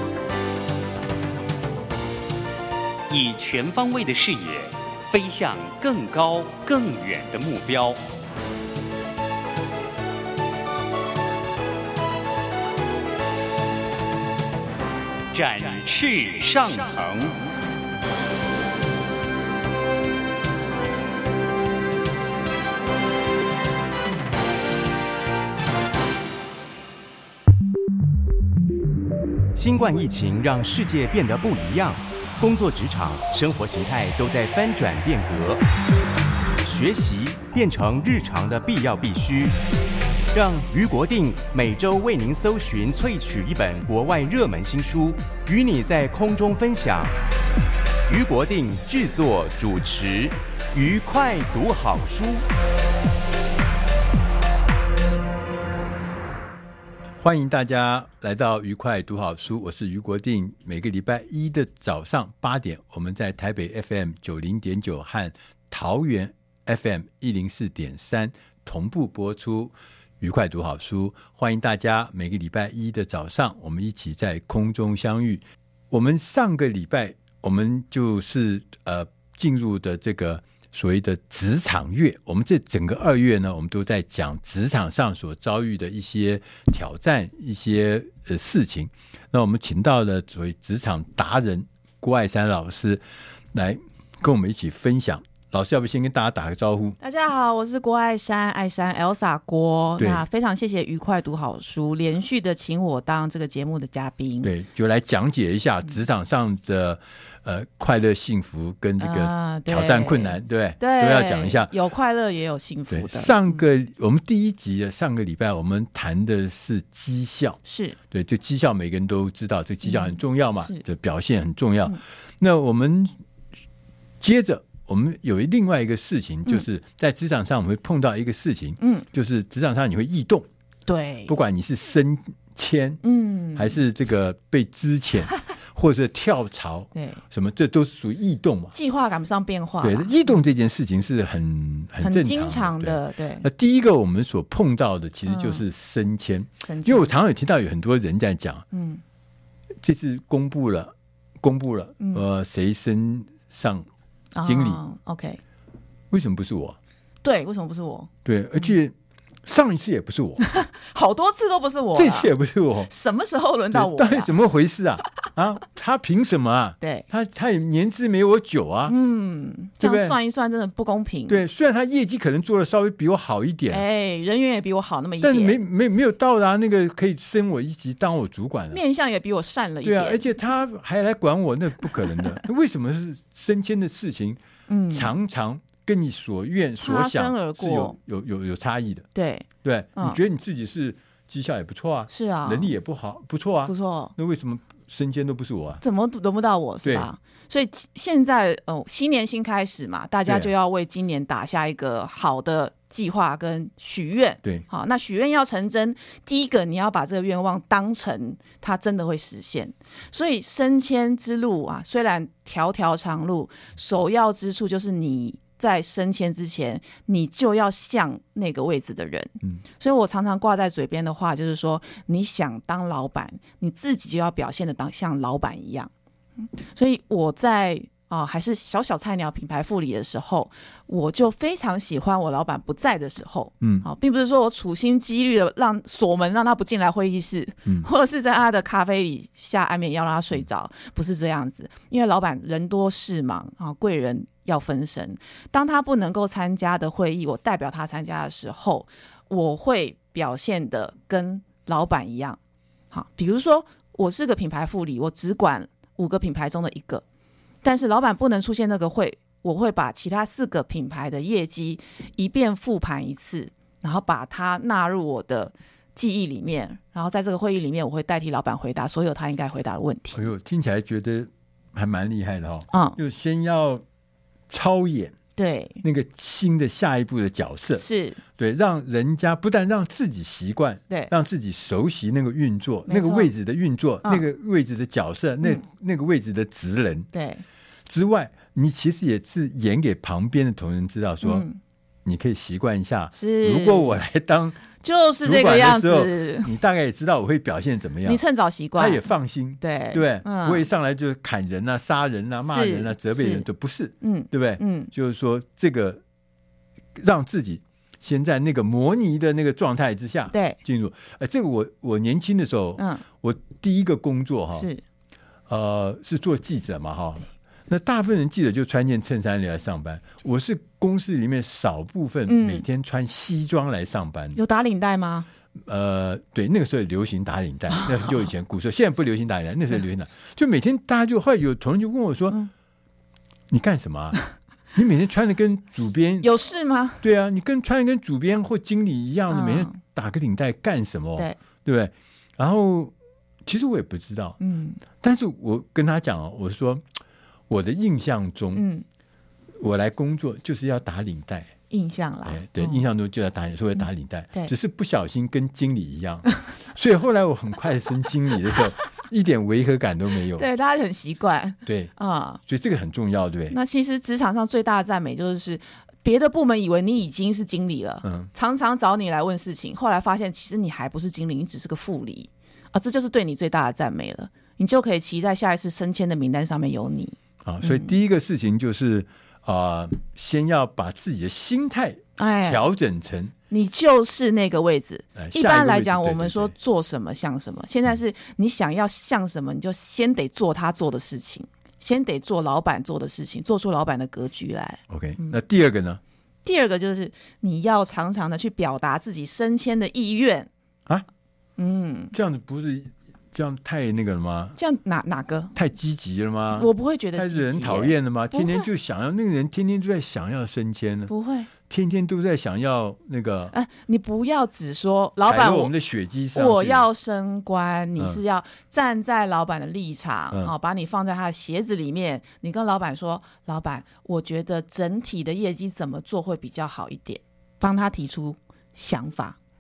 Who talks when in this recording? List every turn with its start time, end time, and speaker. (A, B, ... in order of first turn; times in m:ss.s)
0:03.1-0:08.0 A
0:15.3-0:17.4 A
0:29.6-0:35.6 B
0:36.6-0:39.6 B
0:40.3-0:47.2 B
0:48.1-0:52.5 B
0:57.2-1:37.0 C
1:37.0-1:44.5 D
1:40.0-1:40.2 C
1:44.4-1:51.7 C
1:49.0-1:53.6 D
1:52.9-1:57.6 C
1:57.7-1:58.0 D
1:58.1-2:03.1 C
1:59.8-2:00.8 D
2:04.2-2:10.5 C
2:08.8-2:09.1 D
2:10.9-2:11.3 D
2:11.3-2:13.0 C
2:13.0-2:13.8 D
2:13.6-2:18.7 C
2:17.0-2:17.2 D
2:18.7-2:20.4 D
2:19.8-2:28.7 C
2:22.0-2:23.5 D
2:25.3-2:25.6 D
2:26.6-2:27.1 D
2:28.7-2:29.0 D
2:29.8-2:33.9 C
2:34.4-2:35.4 D
2:34.4-2:34.8 C
2:36.1-2:36.8 C
2:37.2-2:38.1 D
2:38.2-2:40.5 C
2:40.4-2:42.3 D
2:42.0-2:42.9 C
2:42.9-2:44.3 D
2:43.7-2:48.9 C
2:46.8-2:47.1 D
2:48.9-2:51.4 D
2:49.8-2:50.2 C
2:51.3-2:53.8 C
2:53.7-2:55.6 D
2:55.2-2:58.8 C
2:58.7-3:00.3 D
2:59.8-3:04.4 C
3:02.0-3:02.4 D
3:04.7-3:05.1 D
3:04.9-3:09.1 C
3:06.8-3:08.0 D
3:09.2-3:10.2 D
3:09.6-3:15.8 C
3:12.1-3:12.7 D
3:13.6-3:14.1 D
3:15.8-4:12.4 D
3:16.8-3:17.1 C
3:53.6-3:53.9 C
4:12.9-4:17.0 D
4:17.6-4:30.2 D
4:30.1-4:33.8 C
4:32.7-4:33.0 D
4:34.5-4:35.2 C
4:35.4-4:35.8 D
4:35.8-4:37.8 C
4:37.8-4:38.2 D
4:38.4-4:47.1 C
4:42.9-4:43.3 D
4:47.1-4:47.4 D
4:47.9-4:51.5 C
4:51.2-4:51.6 D
4:52.1-4:54.6 C
4:53.1-4:54.0 D
4:54.8-4:56.5 D
4:55.2-4:58.2 C
4:58.0-4:59.0 D
4:58.8-5:06.0 C
4:59.6-5:00.7 D
5:02.4-5:03.5 D
5:04.0-5:04.9 D
5:07.0-5:14.7 C
5:10.3-5:10.6 D
5:12.8-5:13.0 D
5:14.6-5:14.8 D
5:15.5-5:24.4 C
5:22.3-5:22.6 D
5:24.4-5:25.3 D
5:25.6-5:32.4 C
5:27.8-5:28.2 D
5:33.5-5:34.2 C
5:34.8-5:36.3 C
5:36.2-5:37.0 D
5:37.0-5:42.9 C
5:39.3-5:39.8 D
5:43.4-5:44.4 C
5:44.4-5:44.8 D
5:45.0-5:46.8 C
5:47.5-5:48.6 C
5:48.5-5:48.8 D
5:49.6-5:51.5 C
5:51.7-5:52.8 D
5:52.2-6:00.5 C
6:00.4-6:02.4 D
6:01.6-6:01.9 C
6:02.4-6:03.6 C
6:03.5-6:18.0 D
6:08.0-6:08.3 C
6:17.4-6:23.3 C
6:22.2-6:22.7 D
6:23.5-6:35.4 D
6:25.2-6:26.5 C
6:34.9-6:36.0 C
6:36.4-6:40.5 D
6:41.6-6:42.1 D
6:42.1-6:44.6 C
6:44.6-6:45.5 D
6:45.6-6:51.1 C
6:46.5-6:48.7 D
6:51.1-6:51.5 D
6:51.7-6:53.5 C
6:53.5-6:55.7 D
6:55.2-6:56.9 C
6:56.3-7:09.4 D